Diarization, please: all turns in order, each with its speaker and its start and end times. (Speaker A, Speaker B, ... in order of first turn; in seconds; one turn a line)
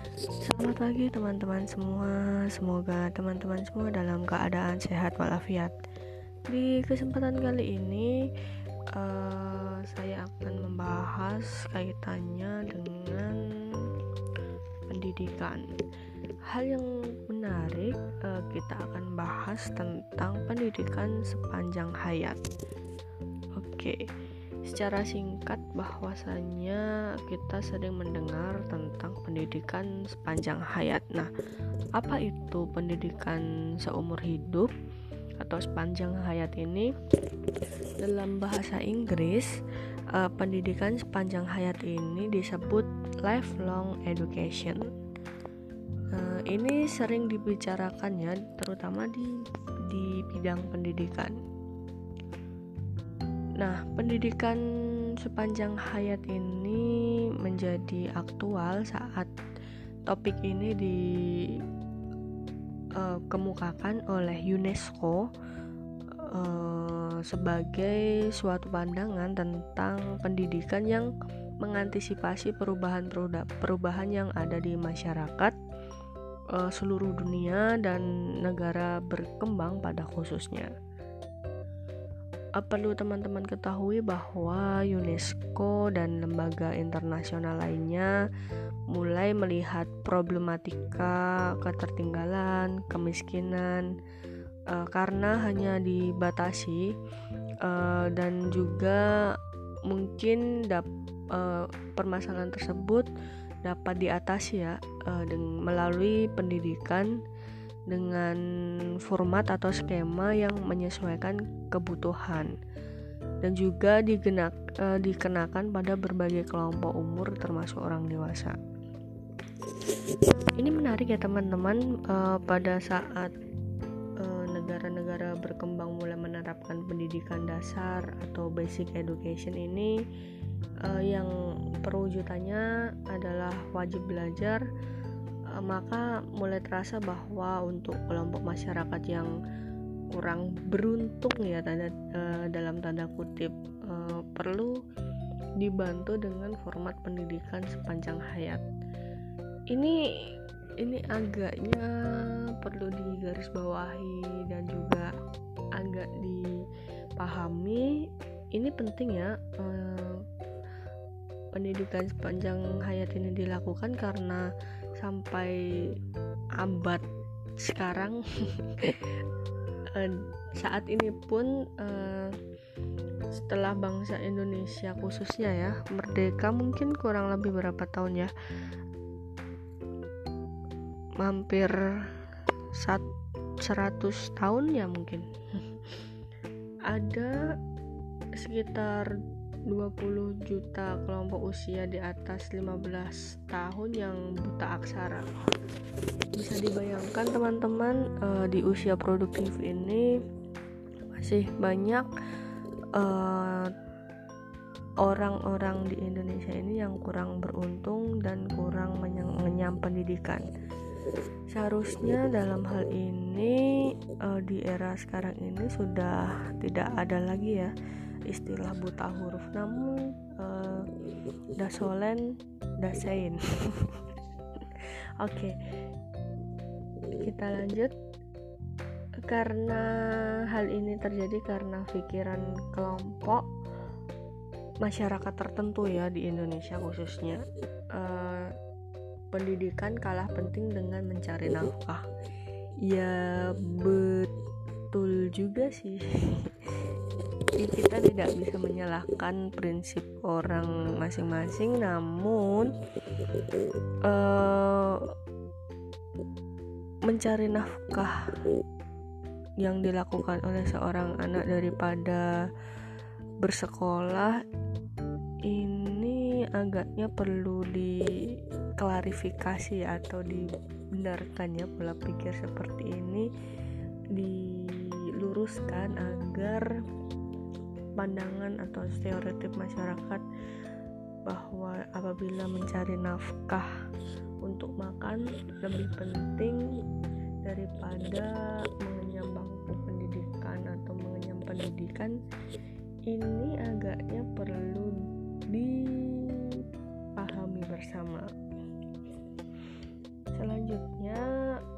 Speaker A: 0.4-5.8
Speaker A: 6.5-8.1
Speaker A: 8.9-13.9
Speaker A: 14.9-15.7
Speaker A: 16.5-22.4
Speaker A: 23.6-24.0
Speaker A: 24.6-31.3
Speaker A: 32.0-34.7
Speaker A: 35.4-36.9
Speaker A: 38.0-39.6
Speaker A: 40.1-44.8
Speaker A: 46.1-49.3
Speaker A: 49.9-51.4
Speaker A: 53.6-54.6
Speaker A: 55.2-59.3
Speaker A: 60.1-61.6
Speaker A: 63.0-65.3
Speaker A: 66.2-75.5
Speaker A: 76.5-80.7
Speaker A: 82.6-88.2
Speaker A: 88.9-93.9
Speaker A: 94.7-97.0
Speaker A: 97.6-103.1
Speaker A: 103.6-107.1
Speaker A: 107.9-108.4
Speaker A: 109.0-112.5
Speaker A: 113.4-118.6
Speaker A: 120.5-123.3
Speaker A: 124.2-130.0
Speaker A: 130.8-134.7
Speaker A: 135.6-139.3
Speaker A: 140.1-144.8
Speaker A: 145.6-148.7
Speaker A: 149.7-155.1
Speaker A: 155.8-156.6
Speaker A: 157.2-157.9
Speaker A: 158.5-160.2
Speaker A: 161.5-164.4
Speaker A: 165.0-165.6
Speaker A: 166.6-167.0
Speaker A: 167.6-169.2
Speaker A: 169.9-172.4
Speaker A: 173.3-178.3
Speaker A: 181.2-181.8
Speaker A: 182.8-183.0
Speaker A: 183.6-186.0
Speaker A: 186.9-187.4
Speaker A: 188.4-189.1
Speaker A: 189.7-195.2
Speaker A: 196.3-200.1
Speaker A: 201.1-202.1
Speaker A: 202.9-203.7
Speaker A: 205.0-210.5
Speaker A: 211.5-217.7
Speaker A: 218.3-220.9
Speaker A: 221.6-224.0
Speaker A: 224.6-225.6
Speaker A: 227.2-227.9
Speaker A: 229.3-233.5
Speaker A: 234.8-238.5
Speaker A: 239.3-242.1
Speaker A: 242.9-244.3
Speaker A: 244.9-246.8
Speaker A: 247.6-252.7
Speaker A: 254.1-255.0
Speaker A: 257.1-258.3
Speaker A: 259.6-262.5
Speaker A: 263.4-264.4
Speaker A: 265.5-273.3
Speaker A: 274.1-276.7
Speaker A: 278.0-280.2
Speaker A: 281.3-283.7
Speaker A: 284.4-286.6
Speaker A: 287.4-292.2
Speaker A: 293.1-294.9
Speaker A: 295.5-296.6
Speaker A: 297.2-298.3
Speaker A: 300.4-301.2